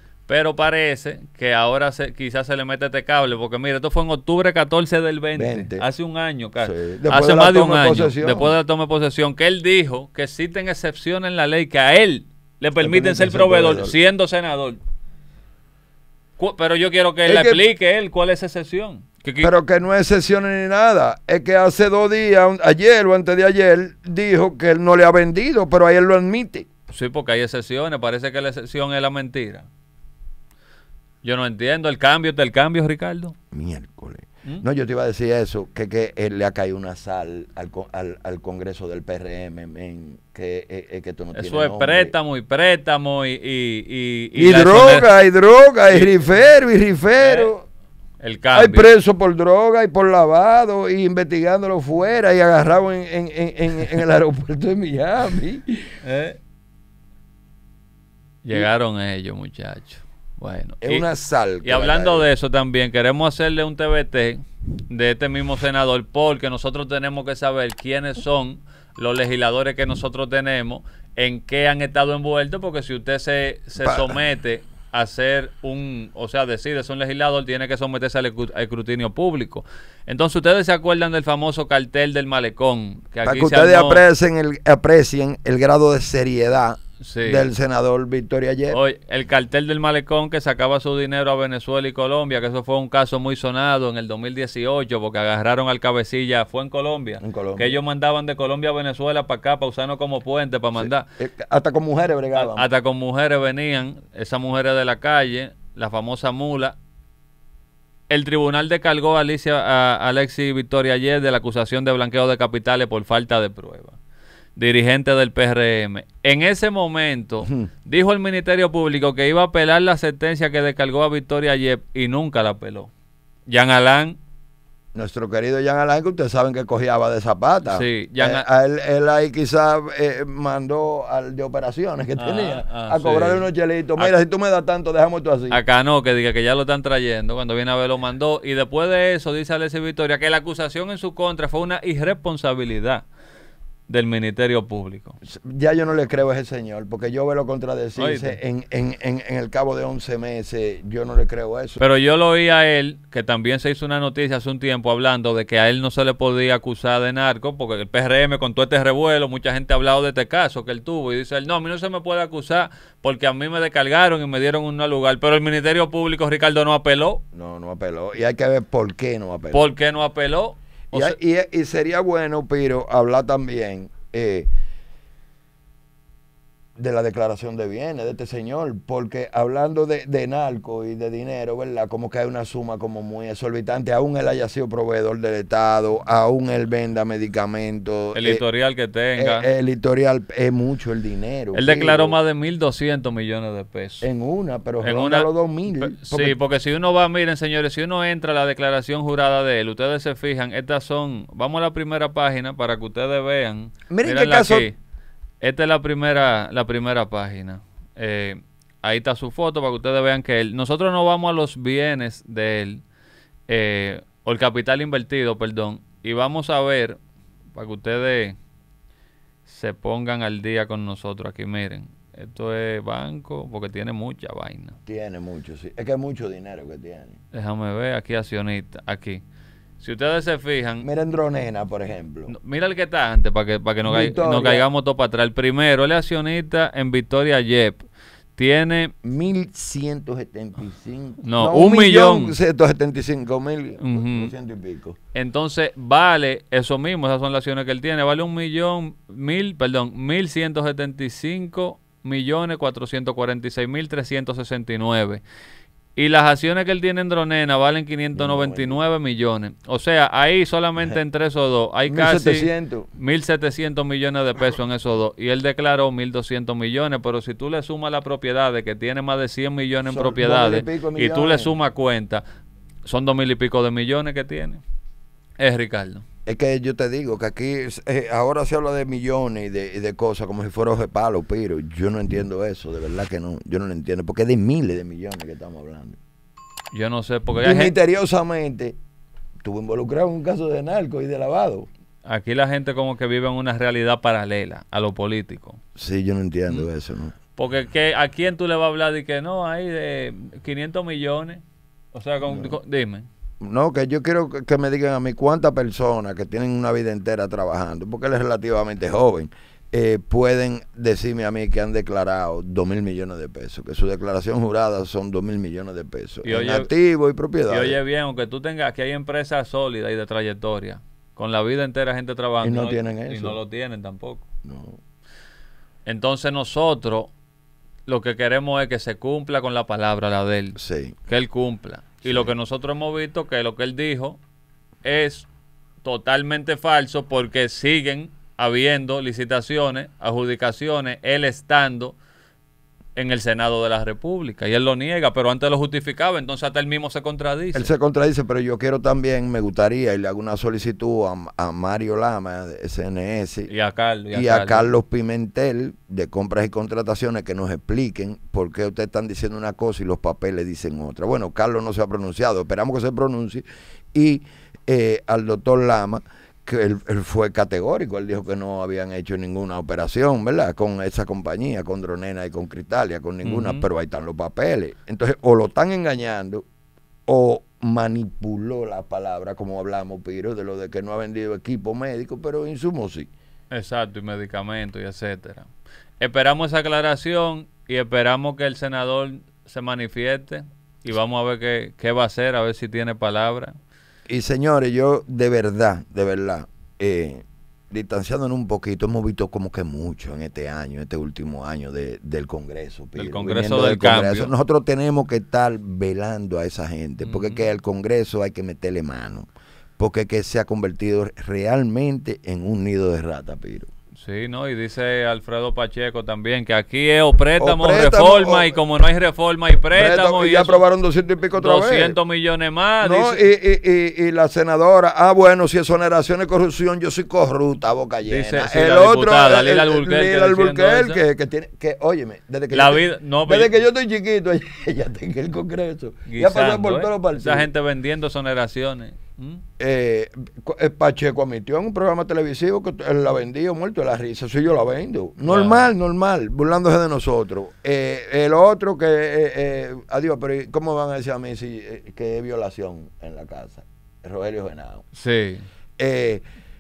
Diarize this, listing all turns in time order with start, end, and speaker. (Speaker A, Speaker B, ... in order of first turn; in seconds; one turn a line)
Speaker A: 0.3-14.8
Speaker B: 5.3-5.8
Speaker B: 6.6-8.5
Speaker B: 12.8-13.9
Speaker A: 16.4-19.5
Speaker B: 17.3-17.6
Speaker B: 19.4-26.7
Speaker A: 26.9-29.7
Speaker A: 31.2-33.3
Speaker B: 33.5-42.1
Speaker A: 41.4-45.1
Speaker B: 44.4-47.6
Speaker A: 45.9-46.3
Speaker A: 47.2-47.5
Speaker A: 48.2-48.9
Speaker B: 48.5-55.9
Speaker A: 56.0-56.4
Speaker A: 58.4-61.1
Speaker B: 60.8-62.3
Speaker A: 61.6-84.0
Speaker B: 73.8-74.2
Speaker B: 83.2-88.8
Speaker A: 87.0-87.5
Speaker A: 88.7-101.0
Speaker B: 97.2-97.7
Speaker B: 100.8-102.7
Speaker A: 102.3-106.8
Speaker A: 108.1-114.0
Speaker A: 114.6-122.9
Speaker A: 123.5-124.2
Speaker B: 124.9-135.6
Speaker A: 127.7-128.4
Speaker A: 132.2-133.4
Speaker A: 135.5-143.1
Speaker A: 143.9-145.2
Speaker B: 145.2-151.8
Speaker A: 148.0-148.4
Speaker A: 151.8-167.2
Speaker B: 167.3-169.7
Speaker A: 169.5-171.2
Speaker B: 170.9-174.5
Speaker B: 176.8-188.4
Speaker A: 188.1-189.5
Speaker B: 189.2-192.2
Speaker A: 191.5-194.1
Speaker B: 194.0-196.4
Speaker A: 194.8-204.8
Speaker B: 203.9-204.7
Speaker A: 205.4-212.8
Speaker A: 213.5-217.0
Speaker A: 217.5-218.4
Speaker A: 219.5-224.8
Speaker B: 224.9-227.2
Speaker A: 227.3-229.2
Speaker A: 229.8-230.9
Speaker B: 230.8-232.3
Speaker A: 232.3-237.8
Speaker B: 233.8-234.7
Speaker A: 238.3-238.9
Speaker B: 239.0-245.0
Speaker A: 241.2-242.4
Speaker A: 243.8-244.3
Speaker A: 245.1-255.2
Speaker A: 256.0-272.2
Speaker B: 258.1-258.8
Speaker B: 261.9-262.9
Speaker B: 269.9-271.5
Speaker A: 272.9-274.6
Speaker A: 275.4-276.0
Speaker B: 276.3-286.0
Speaker A: 286.7-287.8
Speaker B: 287.4-288.8
Speaker B: 289.4-291.7
Speaker A: 292.1-295.6
Speaker B: 295.8-297.1
Speaker A: 297.4-301.4
Speaker A: 301.9-303.1
Speaker B: 302.2-302.6
Speaker B: 303.4-317.8
Speaker A: 316.2-316.7
Speaker A: 317.5-324.2
Speaker B: 322.4-323.4
Speaker B: 324.4-324.8
Speaker A: 325.9-327.1
Speaker A: 327.9-334.2
Speaker B: 330.6-331.0
Speaker B: 332.1-332.3
Speaker A: 334.8-335.3
Speaker A: 335.8-342.0
Speaker A: 343.0-347.7
Speaker B: 347.5-353.5
Speaker A: 353.5-354.7
Speaker B: 354.1-376.4
Speaker A: 373.2-373.7
Speaker B: 377.1-383.1
Speaker A: 383.5-385.5
Speaker A: 386.0-393.6
Speaker B: 394.1-409.3
Speaker A: 403.0-404.3
Speaker A: 407.0-407.4
Speaker B: 409.8-413.7
Speaker A: 414.0-420.6
Speaker B: 417.4-418.5
Speaker B: 419.7-422.0
Speaker A: 421.3-423.3
Speaker B: 422.8-437.5
Speaker A: 428.0-431.0
Speaker A: 432.5-433.5
Speaker A: 436.1-439.4
Speaker B: 439.6-454.8
Speaker A: 445.2-445.7
Speaker A: 454.9-455.4
Speaker B: 455.8-456.2